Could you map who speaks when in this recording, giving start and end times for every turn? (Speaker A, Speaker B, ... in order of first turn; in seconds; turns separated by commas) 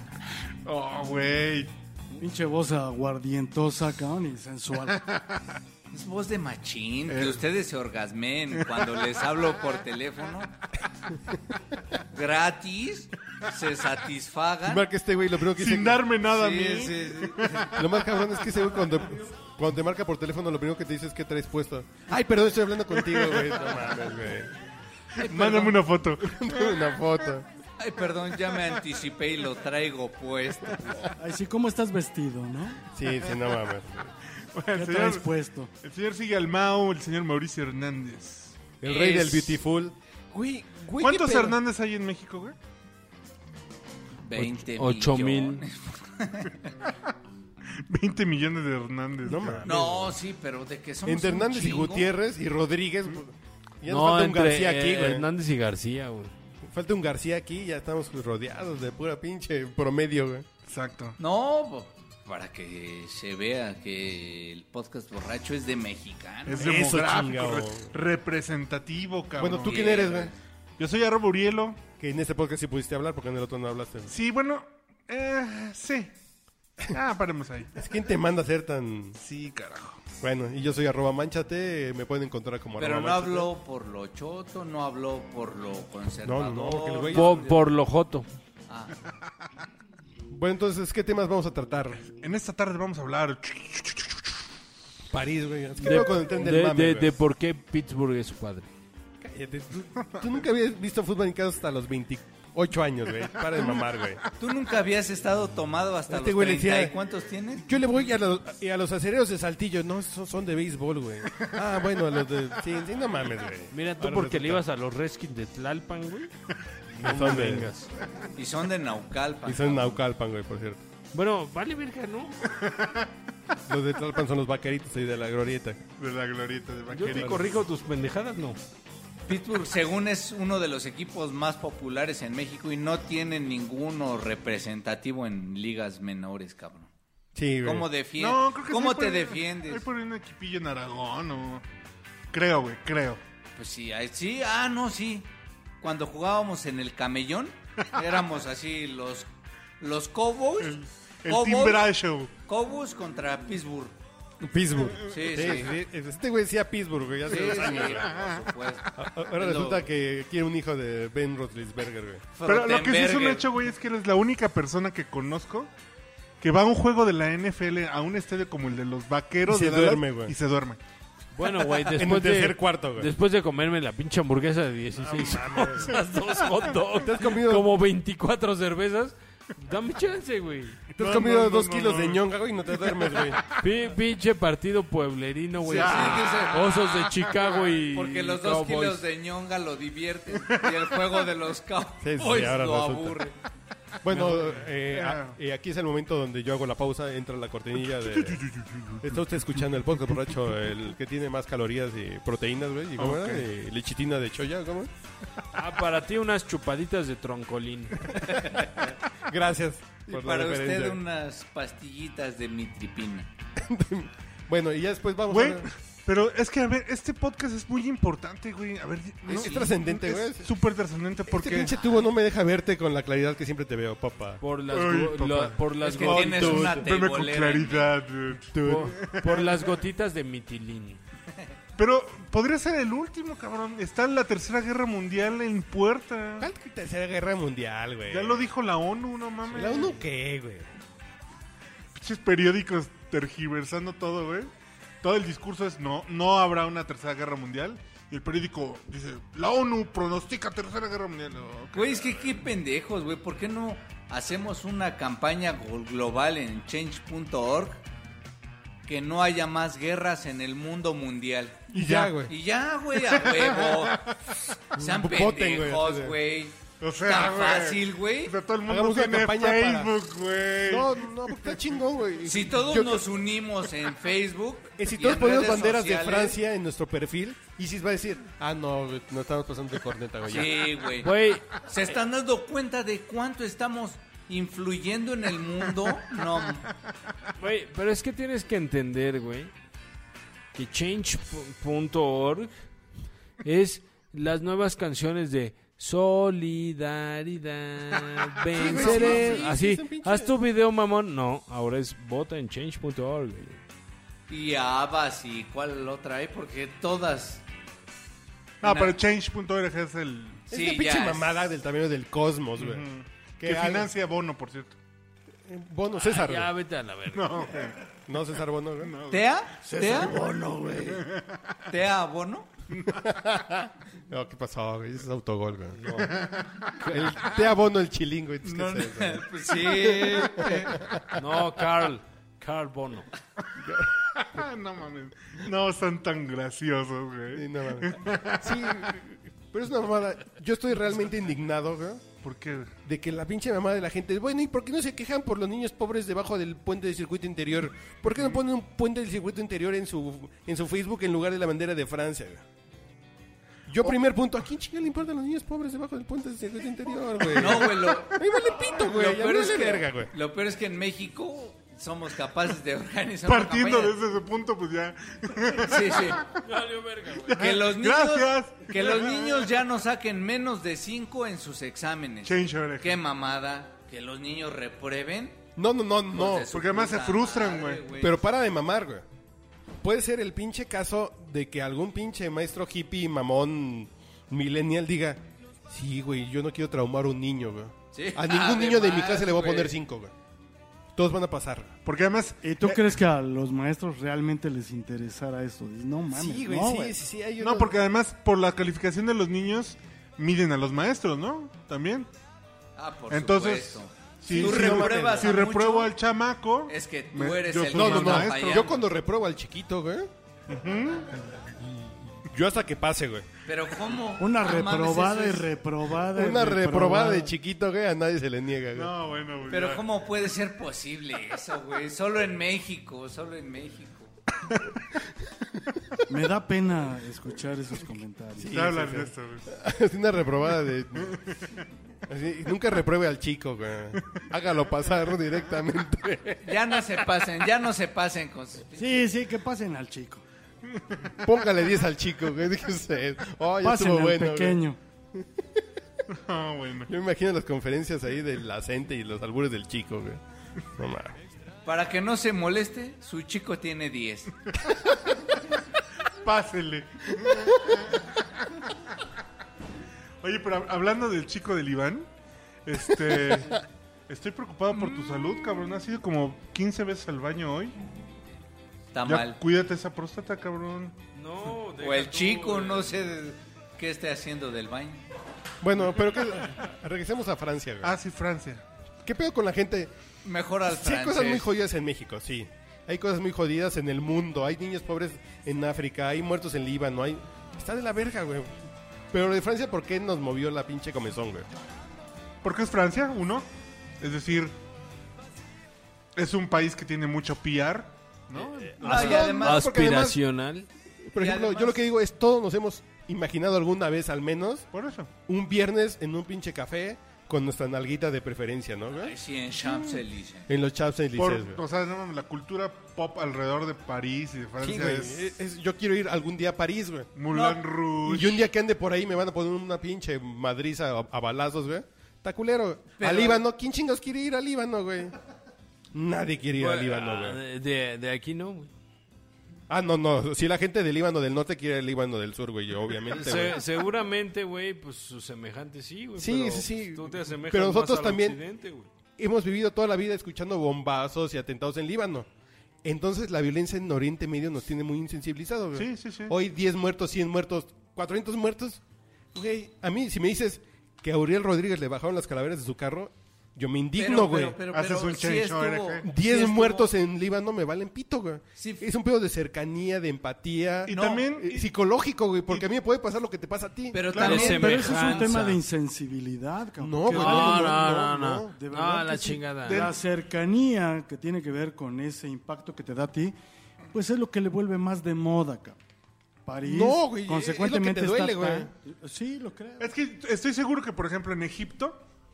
Speaker A: 0.6-1.7, Speaker B: 2.2-5.0, Speaker A: 5.0-5.5, Speaker C: 5.9-10.6, Speaker A: 7.1-7.4, Speaker C: 12.1-14.9, Speaker D: 14.6-16.1, Speaker A: 15.5-17.8, Speaker C: 16.3-17.8, Speaker D: 17.7-24.5, Speaker A: 23.0-23.5, Speaker A: 25.1-26.8, Speaker D: 25.2-27.4, Speaker C: 27.8-31.1, Speaker B: 31.2-32.8, Speaker D: 32.9-34.1, Speaker A: 34.5-35.3, Speaker B: 34.7-35.7, Speaker A: 35.8-38.6, Speaker D: 38.8-41.6, Speaker C: 38.8-39.6, Speaker A: 41.0-42.5, Speaker C: 44.2-46.7, Speaker E: 44.4-45.6, Speaker A: 47.7-49.6, Speaker D: 49.2-50.2, Speaker C: 49.6-52.1, Speaker D: 51.0-55.3, Speaker E: 53.9-56.3, Speaker D: 56.7-60.5, Speaker A: 60.6-61.2, Speaker C: 61.2-66.7, Speaker A: 66.5-70.0, Speaker D: 66.5-67.9, Speaker D: 69.4-70.3, Speaker C: 69.6-70.3, Speaker A: 70.8-71.8, Speaker D: 72.0-74.1, Speaker A: 74.1-76.1, Speaker A: 76.9-77.7, Speaker D: 77.8-79.2, Speaker A: 79.2-80.0, Speaker D: 80.2-83.5, Speaker C: 82.8-87.5, Speaker D: 86.2-87.4, Speaker E: 87.0-88.3, Speaker C: 88.7-88.9, Speaker D: 90.3-92.1, Speaker A: 92.2-94.3, Speaker D: 95.1-97.1, Speaker E: 95.8-98.7, Speaker D: 99.2-104.2, Speaker C: 104.4-107.6, Speaker D: 106.1-107.0, Speaker D: 107.6-114.6, Speaker E: 113.7-116.3, Speaker E: 116.9-117.9, Speaker D: 117.0-117.7, Speaker C: 118.3-120.0, Speaker D: 119.5-120.8, Speaker E: 121.1-122.5, Speaker A: 122.5-123.1, Speaker D: 123.7-125.8, Speaker A: 126.0-127.6, Speaker E: 126.9-128.6, Speaker C: 129.3-136.9, Speaker D: 137.3-137.9, Speaker C: 137.6-139.8, Speaker A: 138.2-141.6, Speaker A: 142.3-143.2, Speaker C: 143.6-145.3, Speaker C: 145.8-149.3, Speaker C: 149.8-151.9, Speaker A: 150.6-152.3, Speaker C: 152.4-153.9, Speaker D: 154.4-158.1, Speaker A: 154.9-155.7, Speaker C: 155.1-155.8, Speaker C: 157.2-159.8, Speaker A: 157.7-158.5, Speaker D: 158.9-162.2, Speaker C: 162.3-163.5, Speaker A: 162.4-165.7, Speaker A: 166.4-170.8, Speaker D: 169.5-170.3, Speaker E: 171.3-180.8, Speaker D: 171.8-173.1, Speaker D: 175.0-175.9, Speaker D: 177.0-177.7, Speaker A: 180.9-182.2, Speaker D: 181.0-183.4, Speaker A: 182.8-183.1, Speaker E: 183.5-189.0, Speaker C: 185.6-186.7, Speaker A: 185.7-187.6, Speaker C: 187.9-193.3, Speaker A: 190.5-190.8, Speaker D: 192.0-193.2, Speaker D: 194.0-198.4, Speaker A: 194.1-195.3, Speaker A: 197.8-199.2, Speaker D: 199.0-204.9, Speaker A: 203.0-203.4, Speaker E: 205.5-208.2, Speaker C: 208.4-208.7, Speaker D: 209.1-211.0, Speaker C: 210.1-213.3, Speaker D: 213.6-215.7, Speaker A: 215.3-221.7, Speaker D: 219.3-220.5, Speaker C: 219.3-219.7, Speaker D: 221.3-224.4, Speaker C: 221.7-222.0, Speaker E: 224.4-226.9, Speaker A: 224.7-229.7, Speaker C: 225.8-227.9, Speaker D: 226.4-226.7, Speaker D: 228.5-229.3, Speaker E: 228.6-231.0, Speaker A: 231.8-236.5, Speaker D: 236.4-238.4, Speaker A: 238.1-240.0, Speaker D: 239.5-240.7, Speaker A: 241.9-244.5, Speaker A: 245.0-252.3, Speaker C: 251.7-257.8, Speaker C: 258.9-264.1, Speaker A: 261.7-262.2, Speaker D: 261.7-262.3, Speaker A: 263.0-264.4, Speaker C: 264.7-268.4, Speaker D: 264.8-266.1, Speaker A: 266.8-271.6, Speaker D: 268.6-269.9, Speaker D: 270.6-273.1, Speaker C: 272.2-276.4, Speaker D: 274.8-280.7, Speaker C: 280.2-286.7, Speaker E: 281.0-281.6, Speaker E: 287.4-289.5, Speaker E: 290.5-292.5, Speaker E: 293.4-303.6, Speaker D: 298.5-300.3, Speaker C: 298.8-299.1, Speaker C: 304.3-307.4, Speaker A: 308.6-310.5, Speaker C: 308.6-308.9, Speaker C: 310.5-311.3, Speaker D: 310.5-312.8, Speaker A: 312.6-314.8, Speaker D: 313.4-313.9, Speaker D: 315.4-316.5, Speaker E: 316.0-317.6, Speaker A: 317.1-317.8, Speaker D: 318.1-318.9, Speaker A: 318.8-319.2, Speaker C: 319.1-320.2, Speaker E: 319.6-321.1, Speaker A: 320.9-321.6, Speaker C: 321.7-322.5, Speaker A: 322.7-323.0, Speaker D: 322.9-326.2, Speaker E: 325.8-327.2, Speaker A: 326.1-326.7, Speaker D: 326.9-331.0, Speaker C: 328.4-330.8, Speaker E: 331.1-333.1, Speaker D: 333.6-333.9, Speaker A: 333.9-338.9, Speaker D: 337.3-342.1, Speaker A: 342.2-342.7, Speaker D: 342.8-352.4, Speaker D: 353.7-360.1, Speaker C: 357.3-364.0, Speaker A: 357.4-357.9, Speaker A: 363.2-366.3, Speaker C: 365.6-366.2, Speaker E: 366.3-367.4, Speaker A: 367.2-369.5, Speaker C: 367.3-375.4, Speaker A: 372.2-373.0, Speaker D: 375.6-376.5, Speaker C: 376.1-378.2, Speaker A: 376.5-377.9, Speaker D: 378.0-379.1, Speaker D: 379.8-390.1, Speaker C: 387.9-389.8, Speaker D: 390.9-391.7, Speaker A: 391.8-392.9, Speaker B: 392.4-396.9, Speaker D: 396.1-397.8, Speaker A: 397.4-402.1, Speaker C: 402.8-405.9, Speaker A: 403.1-408.7, Speaker D: 404.2-405.3, Speaker C: 406.7-408.8, Speaker D: 407.7-410.1, Speaker A: 410.5-411.2, Speaker D: 412.2-413.3, Speaker C: 413.4-415.5, Speaker B: 414.2-417.3, Speaker D: 416.1-418.9, Speaker A: 418.7-419.8, Speaker C: 419.5-424.1, Speaker B: 426.1-428.8, Speaker D: 428.4-431.2, Speaker A: 428.5-429.5, Speaker A: 431.0-431.6, Speaker D: 432.1-436.6, Speaker A: 434.0-434.2, Speaker C: 436.4-439.1, Speaker B: 438.8-440.2, Speaker A: 440.6-441.2, Speaker D: 441.2-444.6, Speaker B: 443.6-444.8, Speaker D: 445.1-445.6, Speaker A: 446.1-446.9, Speaker D: 446.9-450.2, Speaker D: 450.7-451.2, Speaker C: 451.6-454.4, Speaker A: 456.2-458.3, Speaker A: 460.2-462.1, Speaker A: 462.6-467.8, Speaker C: 468.9-469.4, Speaker A: 469.1-471.0, Speaker E: 471.1-473.0, Speaker C: 471.8-475.0, Speaker D: 475.6-477.9, Speaker A: 477.8-478.6, Speaker D: 479.0-479.9, Speaker C: 480.2-481.5, Speaker D: 480.7-488.6, Speaker D: 489.1-491.5, Speaker A: 492.4-493.5, Speaker A: 494.0-494.6, Speaker A: 496.1-499.2, Speaker E: 498.8-500.7, Speaker C: 498.8-499.8, Speaker D: 498.8-500.2, Speaker D: 501.0-504.7, Speaker C: 501.2-501.8, Speaker A: 504.7-505.1, Speaker D: 505.3-511.6, Speaker C: 509.0-510.5, Speaker A: 511.1-515.2, Speaker D: 514.6-517.1, Speaker A: 517.1-518.4, Speaker C: 517.3-517.6, Speaker D: 518.0-525.1, Speaker C: 523.0-523.4, Speaker D: 525.9-527.4, Speaker E: 526.6-528.7, Speaker D: 529.7-533.6, Speaker E: 533.1-538.9, Speaker D: 536.2-538.4, Speaker D: 539.2-542.3, Speaker D: 542.8-548.8, Speaker A: 545.7-546.3, Speaker D: 549.3-554.6, Speaker C: 553.9-556.9, Speaker A: 554.7-556.1, Speaker D: 556.0-564.0, Speaker C: 558.6-558.9, Speaker A: 560.9-561.7, Speaker C: 560.9-561.3, Speaker C: 563.9-565.4, Speaker A: 564.1-564.5, Speaker E: 564.2-565.6, Speaker B: 564.2-567.9, Speaker D: 566.8-568.5, Speaker E: 567.1-569.9, Speaker B: 568.5-573.3, Speaker A: 569.6-570.0, Speaker B: 573.9-575.8, Speaker B: 576.4-579.9, Speaker D: 576.6-578.7, Speaker A: 579.8-582.0